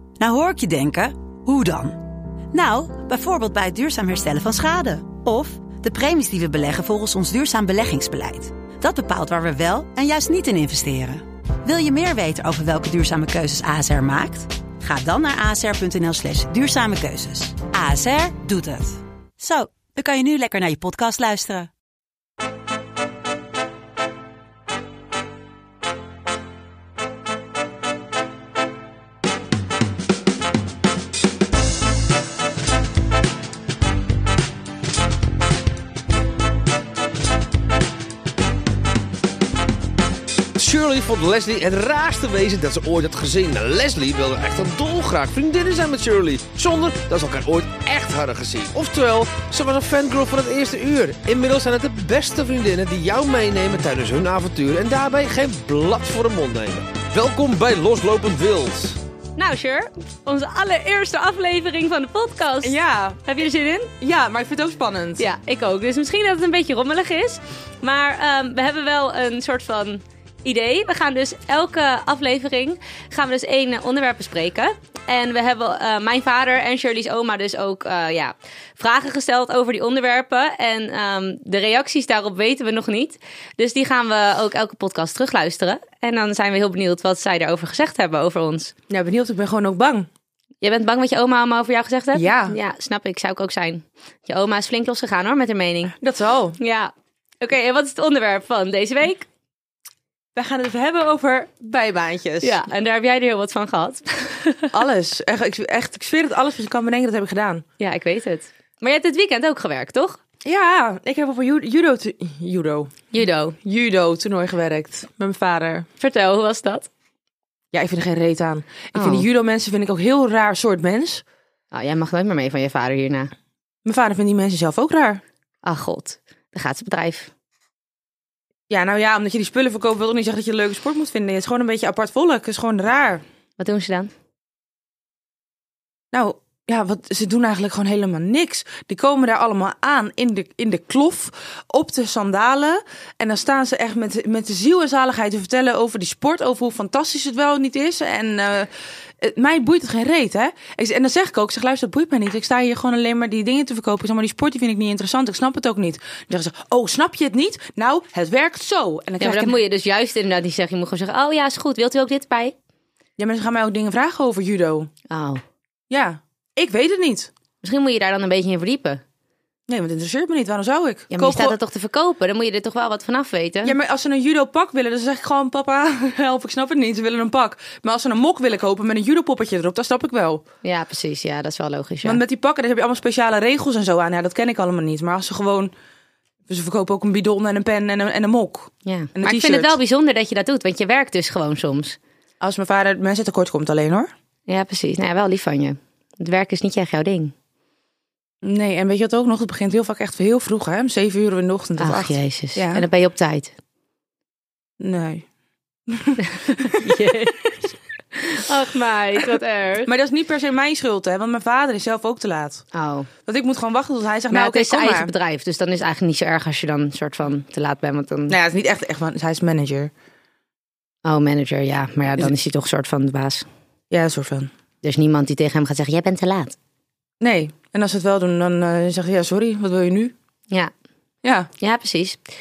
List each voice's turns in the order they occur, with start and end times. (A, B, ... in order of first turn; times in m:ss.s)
0:00.2-0:21.7 A
0:40.6-0:59.0 B
0:59.4-1:03.9 C
1:02.6-1:03.2 D
1:04.0-1:05.2 D
1:05.2-1:28.7 C
1:28.9-1:30.1 D
1:30.6-1:35.9 C
1:32.1-1:32.6 D
1:36.0-1:36.6 D
1:36.6-1:39.3 C
1:40.4-1:42.6 D
1:42.4-1:44.7 C
1:44.7-1:47.6 D
1:47.8-1:50.2 C
1:50.4-1:55.9 D
1:53.1-1:53.6 C
1:56.0-1:56.9 C
1:57.7-2:01.2 D
1:59.0-1:59.2 C
2:01.7-2:03.3 C
2:03.8-2:05.2 D
2:05.6-2:07.3 C
2:08.7-2:13.2 D
2:13.6-2:14.1 C
2:16.1-2:28.7 D
2:29.2-2:39.6 D
2:39.2-2:42.6 C
2:43.2-2:44.9 D
2:45.1-2:45.4 C
2:45.9-2:47.3 D
2:47.6-2:49.0 C
2:49.7-2:51.6 D
2:51.1-2:53.8 C
2:53.6-3:00.4 D
3:00.6-3:02.2 C
3:02.0-3:05.7 D
3:06.5-3:09.8 D
3:08.8-3:12.0 C
3:12.4-3:14.1 D
3:14.5-3:17.3 C
3:18.4-3:22.9 D
3:21.8-3:23.5 C
3:24.8-3:25.2 D
3:25.9-3:27.0 D
3:26.2-3:27.5 C
3:28.1-3:29.9 C
3:29.9-3:32.6 D
3:32.7-3:33.1 C
3:33.3-3:35.1 D
3:34.3-3:38.4 C
3:38.3-3:39.9 D
3:41.0-3:43.4 C
3:43.9-3:44.5 D
3:44.8-3:46.6 C
3:47.2-3:50.1 D
3:51.2-3:51.5 D
3:51.6-3:52.2 C